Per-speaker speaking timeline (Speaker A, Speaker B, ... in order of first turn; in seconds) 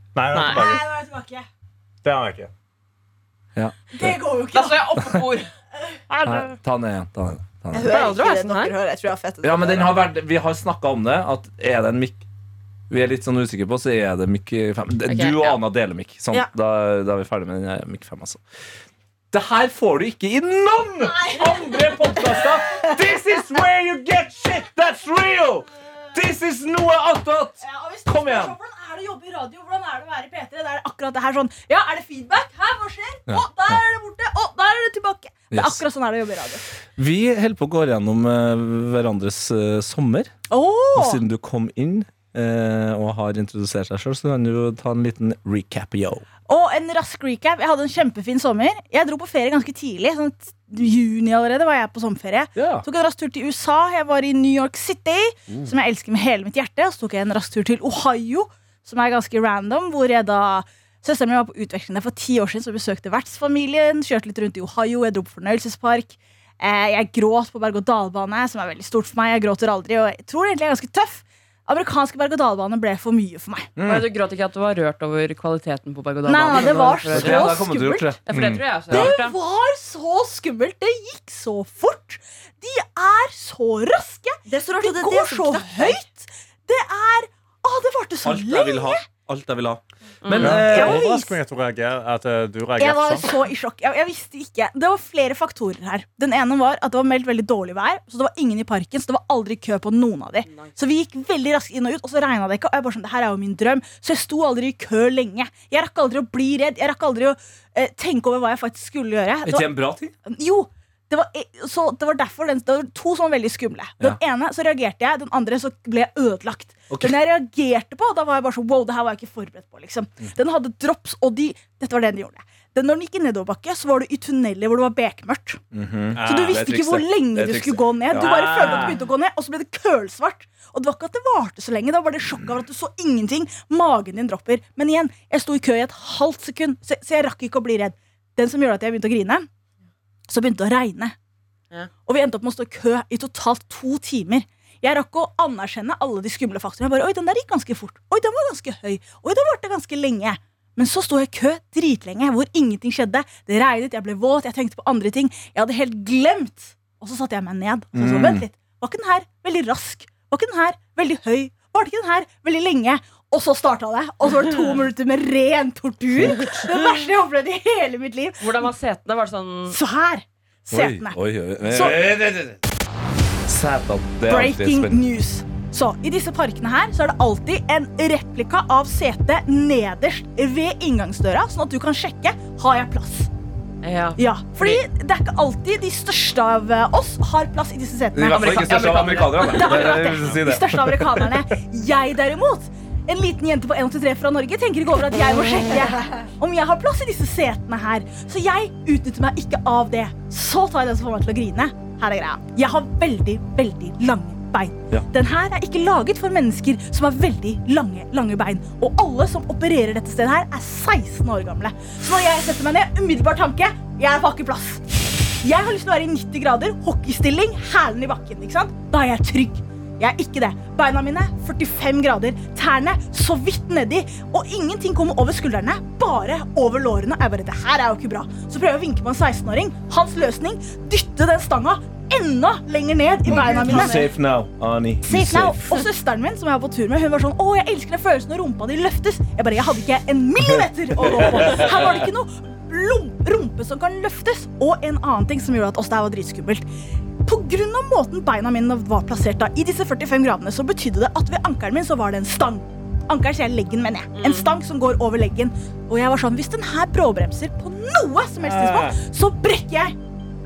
Speaker A: 0.1-0.8, 2.0-2.5, 78.3-78.6, 90.4-93.3, 126.2-126.7, 128.1-129.0, 258.6-258.9
Speaker B: 0.3-0.7, 4.5-5.5, 6.1-6.5, 7.8-8.7, 15.1-15.6, 73.8-77.6, 78.2-79.3, 90.2-90.7, 100.5-100.7, 168.4-169.8, 183.8-184.8, 188.3-190.0, 254.2-254.5
Speaker C: 0.4-1.5, 3.9-5.2, 21.0-21.8, 27.6-36.6, 40.5-41.2, 46.5-73.7, 76.2-78.2, 78.9-89.1, 90.4-91.4, 92.8-125.6, 126.2-139.5, 140.3-141.2, 142.1-168.7, 169.7-172.1, 174.3-183.3, 184.2-188.9, 189.4-234.1, 235.0-246.7, 247.2-259.9
Speaker D: 3.6-4.2, 6.2-7.9, 9.4-12.2, 12.9-18.4, 19.3-28.6, 33.3-33.8, 35.5-35.8, 37.0-40.3, 40.9-46.3, 52.6-52.9, 73.8-74.1, 76.5-79.1, 88.2-91.1, 109.4-110.1, 116.9-117.2, 125.7-129.0, 157.9-158.4, 170.7-172.6, 173.5-175.0, 188.1-191.4, 233.3-235.8, 241.1-241.8
Speaker E: 7.7-10.0, 84.5-86.0, 233.3-234.1